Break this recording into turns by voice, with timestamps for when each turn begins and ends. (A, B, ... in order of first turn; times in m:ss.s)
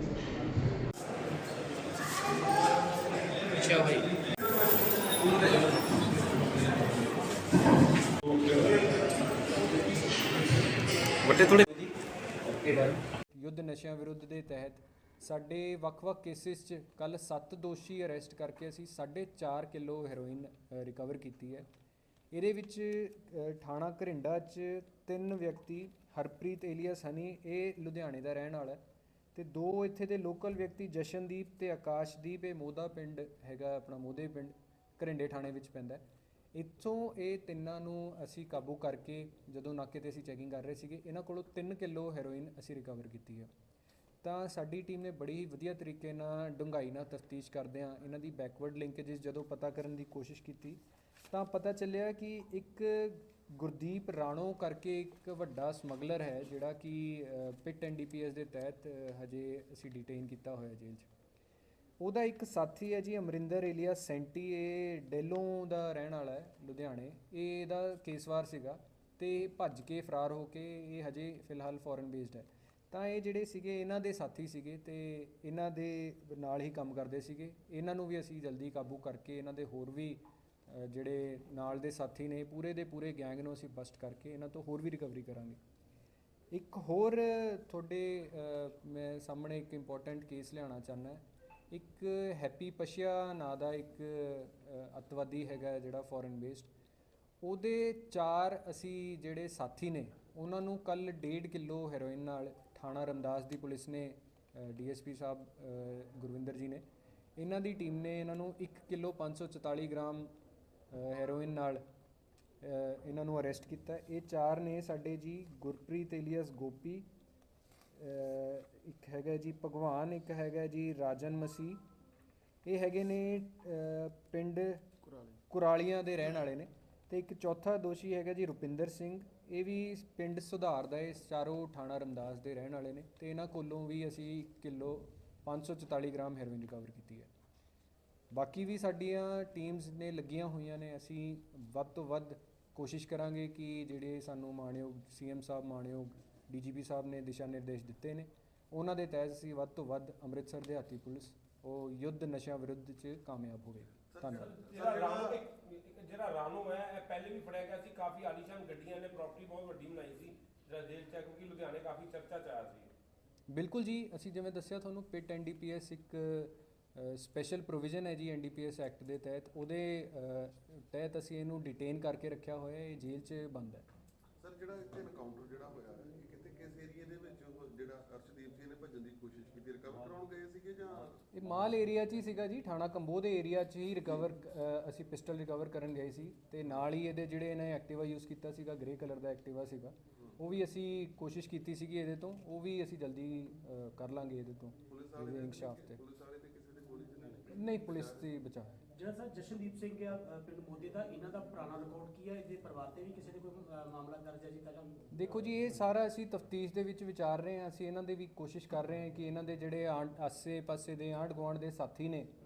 0:13.3-0:21.7 A
0:22.3-0:28.8 A
0:29.3-0:43.5 A
0:44.2-1:01.1 A
1:02.0-1:25.6 A
1:26.5-1:36.7 A
1:37.4-1:46.8 A
1:47.4-1:50.3 A
1:50.9-1:51.8 A
1:52.6-1:57.1 A
1:57.9-2:01.8 A
2:02.6-2:04.9 A
2:05.5-2:17.3 A
2:18.3-2:34.5 A
2:34.1-2:35.4 B
2:34.4-2:42.9 C
2:43.5-2:53.9 A
2:54.4-3:01.2 B
3:01.3-3:16.0 A
3:14.9-3:18.2 B
3:17.5-3:18.8 A
3:18.9-3:25.0 D
3:25.1-3:32.3 A